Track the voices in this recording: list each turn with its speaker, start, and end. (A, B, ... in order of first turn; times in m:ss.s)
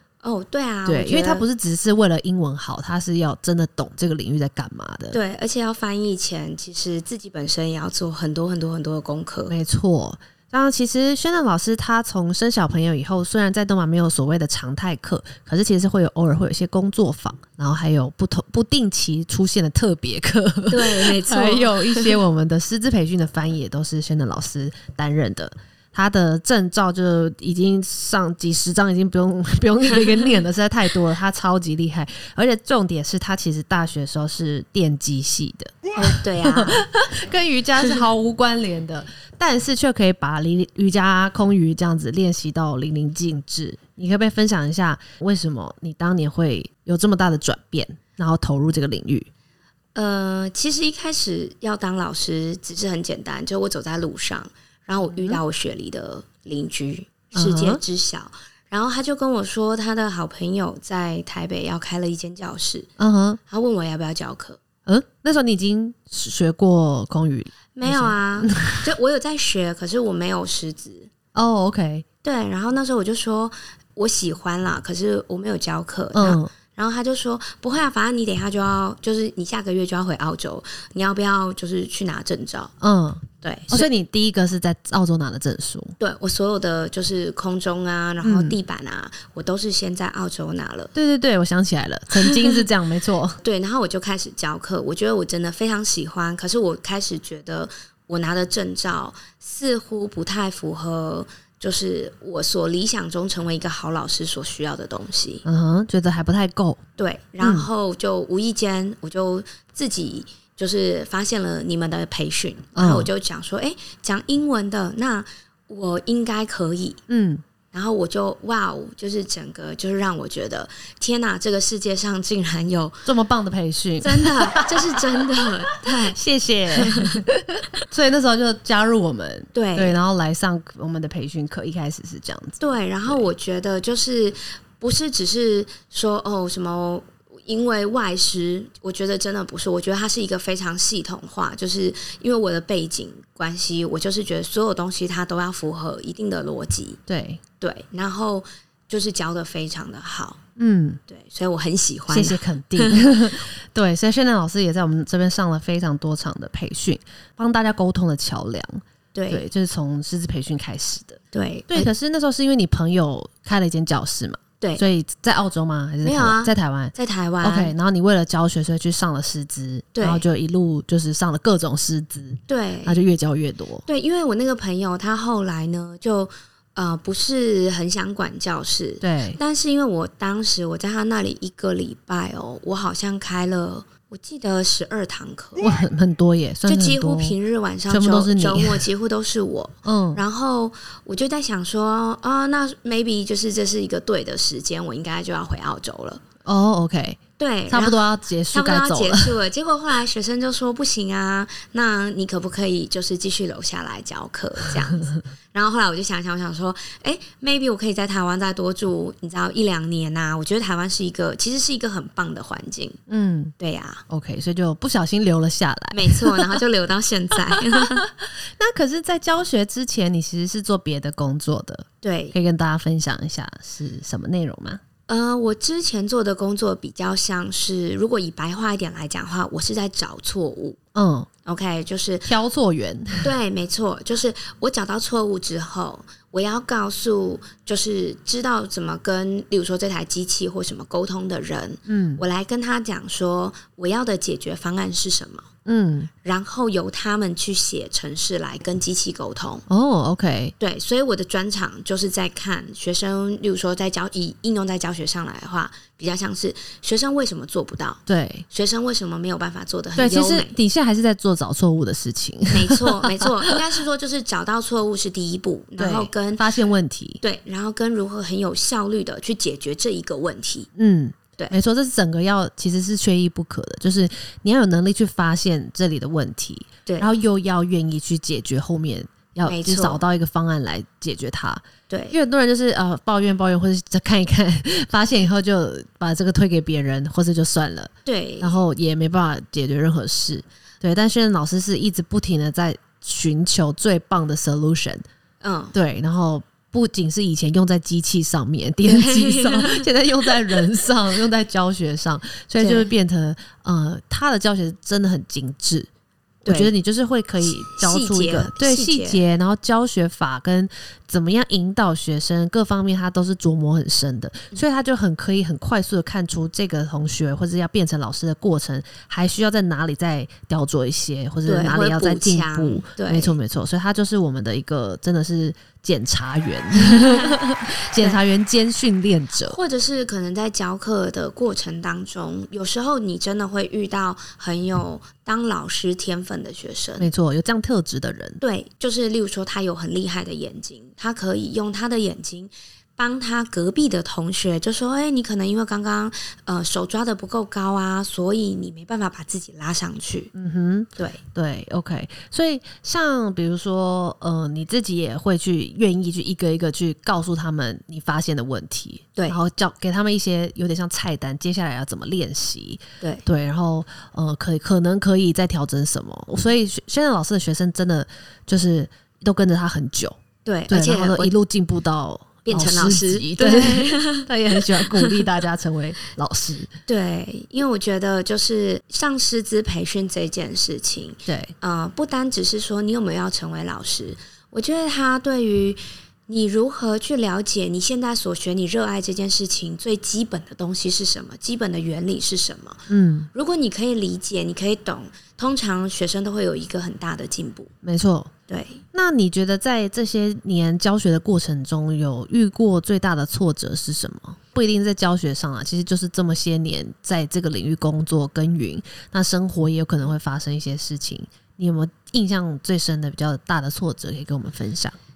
0:00.2-0:01.5 A
0:00.9-0:05.2 B
0:05.1-0:09.5 A
0:09.5-0:35.9 B
0:20.7-0:22.2 A
0:36.0-0:36.8 A
0:36.4-0:49.3 B
0:50.0-1:02.9 A
0:55.1-0:55.4 B
0:57.3-0:57.8 B
1:03.0-1:03.4 B
1:03.5-1:04.6 A
1:04.9-1:08.8 B
1:07.8-1:11.1 A
1:11.4-1:12.0 B
1:12.2-1:22.7 A
1:16.2-1:16.5 B
1:22.8-1:26.0 B
1:23.4-1:23.9 A
1:26.0-1:30.9 A
1:28.2-1:28.6 B
1:31.0-1:33.4 B
1:32.1-1:32.7 A
1:33.4-1:45.4 A
1:45.4-1:46.8 B
1:47.0-1:57.0 A
1:47.4-1:47.7 B
1:52.8-1:53.1 B
1:57.1-1:57.4 B
1:57.7-2:03.1 A
2:03.1-2:13.3 B
2:04.0-2:06.2 A
2:06.7-2:07.2 A
2:09.5-2:10.0 A
2:12.6-2:27.0 A
2:27.1-2:27.4 B
2:27.6-2:30.4 A
2:30.6-2:31.0 B
2:31.1-2:33.1 A
2:32.1-2:53.8 B
2:39.1-2:39.4 A
2:41.3-2:41.9 A
2:46.0-2:47.8 A
2:50.0-2:50.2 A
2:52.5-2:53.0 A
2:53.9-3:05.7 A
2:59.0-2:59.4 B
3:05.6-3:07.4 B
3:06.7-3:16.2 A
3:07.9-3:08.9 B
3:09.8-3:10.2 B
3:16.4-3:19.4 B
3:17.4-3:33.0 A
3:33.1-3:33.5 B
3:33.6-3:34.0 A
3:34.1-3:36.6 B
3:35.9-3:38.1 A
3:37.5-3:44.8 B
3:42.0-3:42.4 A
3:45.1-3:50.8 A
3:51.0-3:51.3 B
3:51.4-3:52.3 A
3:52.2-3:53.3 B
3:53.2-4:05.5 A
4:01.9-4:02.2 B
4:05.7-4:06.1 B
4:06.2-4:09.7 A
4:09.7-4:10.6 B
4:10.6-4:20.6 A
4:18.1-4:18.4 B
4:20.0-4:23.6 B
4:22.5-4:26.4 A
4:25.8-4:27.2 B
4:27.2-4:30.7 A
4:30.8-4:55.0 B
4:39.5-4:40.0 A
4:41.9-4:42.2 A
4:48.1-4:48.6 A
4:55.4-4:55.8 A
4:55.7-5:05.9 B
4:58.8-5:00.6 A
5:02.6-5:02.9 A
5:06.4-5:06.7 A
5:06.5-5:29.6 B
5:07.4-5:09.2 A
5:21.5-5:23.4 A
5:26.9-5:27.3 A
5:29.5-5:37.1 A
5:37.0-5:38.4 B
5:38.4-5:50.3 A
5:50.3-6:16.7 B
6:10.4-6:11.3 A
6:12.5-6:15.3 A
6:16.9-6:37.7 A
6:21.3-6:21.6 B
6:32.9-6:33.3 B
6:37.8-6:38.3 B
6:38.5-6:38.8 A
6:38.9-6:55.0 B